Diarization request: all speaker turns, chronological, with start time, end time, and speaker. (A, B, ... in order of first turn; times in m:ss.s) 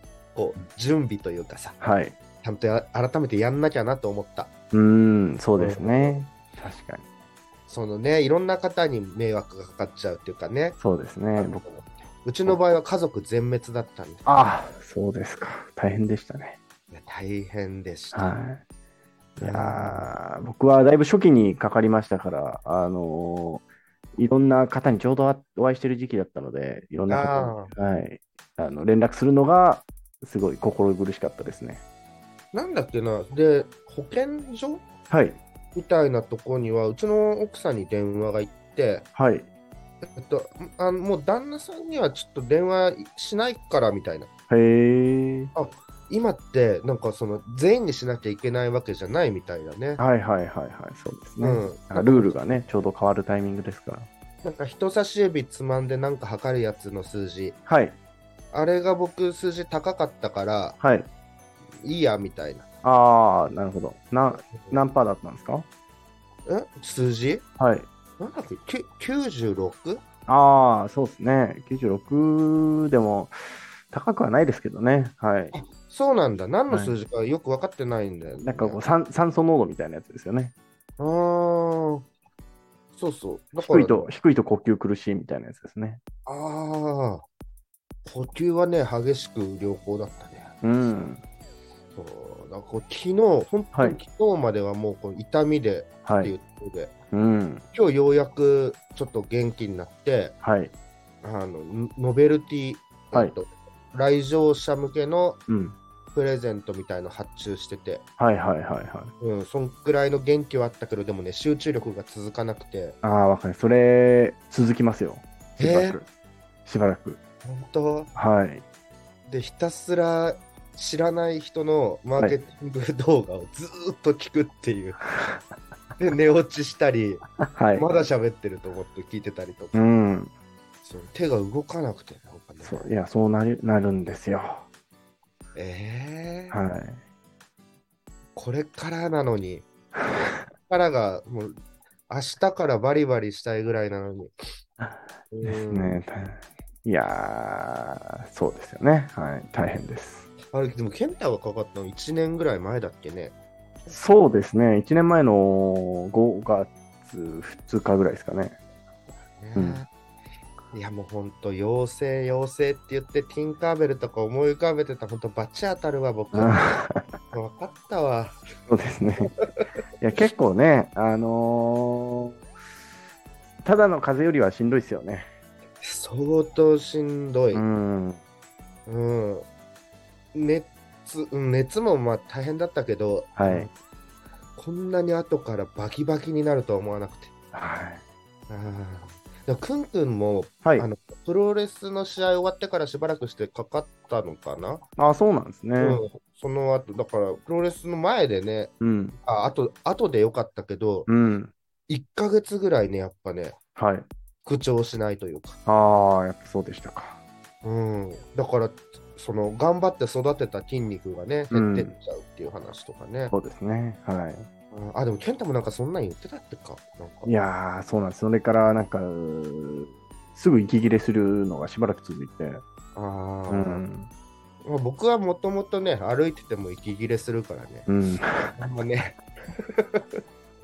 0:00.3-0:01.8 A
0:01.8-0:02.2 B
0:02.4-0:04.5 A
0:04.7-0:07.0 B
0:05.6-0:06.2 A
0:07.7-0:10.8 A
0:10.8-0:11.6 B
0:11.4-0:14.3 A
0:14.2-0:16.6 B
0:16.9-0:18.3 A
0:18.1-0:18.6 B
0:19.4-0:23.6 B
0:19.4-0:20.1 A
0:24.2-0:31.8 B
0:27.1-0:27.7 A
0:32.5-0:34.8 A
0:35.1-0:35.4 B
0:35.7-0:39.0 A
0:39.1-0:39.5 B
0:40.1-0:44.3 A
0:44.5-0:45.5 B
0:45.5-0:50.0 A
0:50.0-0:54.1 B
0:51.4-0:52.5 A
0:54.4-0:57.6 A
0:57.7-0:58.0 B
0:58.5-1:00.8 A
1:00.8-1:01.1 B
1:01.8-1:02.6 A
1:02.8-1:05.6 B
1:04.5-1:04.8 A
1:06.4-1:07.4 A
1:07.6-1:07.9 B
1:08.2-1:10.0 A
1:10.3-1:15.5 B
1:15.5-1:18.8 A
1:16.7-1:17.0 B
1:18.4-1:20.5 B
1:21.0-1:22.0 A
1:22.9-1:24.1 A
1:23.6-1:26.0 B
1:26.2-1:27.2 A
1:28.0-1:30.5 A
1:30.6-1:31.2 B
1:31.9-1:36.9 A
1:33.7-1:34.0 B
1:36.0-1:36.3 B
1:37.1-1:37.6 B
1:37.7-1:40.4 A
1:40.4-1:40.7 B
1:41.2-1:45.4 A
1:45.5-1:45.8 B
1:46.1-1:48.0 A
1:48.2-1:49.1 B
1:49.2-1:53.0 A
1:53.0-1:56.1 B
1:55.6-1:56.0 A
1:56.6-1:57.2 B
1:57.4-1:58.1 A
1:58.1-1:58.6 B
1:59.3-2:05.0 A
2:06.0-2:07.2 A
2:07.4-2:08.0 B
2:07.7-2:09.9 A
2:09.7-2:10.3 B
2:10.8-2:12.9 A
2:12.6-2:14.7 B
2:15.5-2:16.6 A
2:16.5-2:17.0 B
2:18.3-2:19.6 A
2:20.7-2:24.3 A
2:24.8-2:30.3 B
2:25.3-2:26.0 A
2:30.5-2:33.3 A
2:33.9-2:38.6 B
2:39.4-2:39.9 A
2:39.5-2:39.8 B
2:40.7-2:46.6 A
2:46.3-2:47.2 B
2:47.3-2:48.4 A
2:48.7-2:49.3 B
2:49.2-2:49.7 A
2:50.0-2:52.4 B
2:53.6-2:55.2 B
2:55.8-2:57.6 A
2:57.5-2:58.2 B
2:58.9-2:59.4 A
3:00.3-3:03.7 A
3:03.4-3:03.7 B
3:04.6-3:07.3 A
3:07.5-3:08.0 B
3:08.5-3:14.8 A
3:15.0-3:16.0 B
3:15.8-3:18.7 A
3:18.8-3:19.2 B
3:19.2-3:21.1 A
3:21.1-3:21.5 B
3:21.9-3:23.5 A
3:23.8-3:24.1 B
3:24.4-3:25.6 A
3:25.6-3:27.2 B
3:27.6-3:33.3 A
3:31.5-3:31.9 B
3:33.3-3:34.5 B
3:34.7-3:37.3 A
3:37.2-3:42.6 B
3:42.9-3:43.8 A
3:43.5-3:44.1 B
3:44.6-3:47.9 A
3:47.9-3:48.6 B
3:48.6-3:50.2 A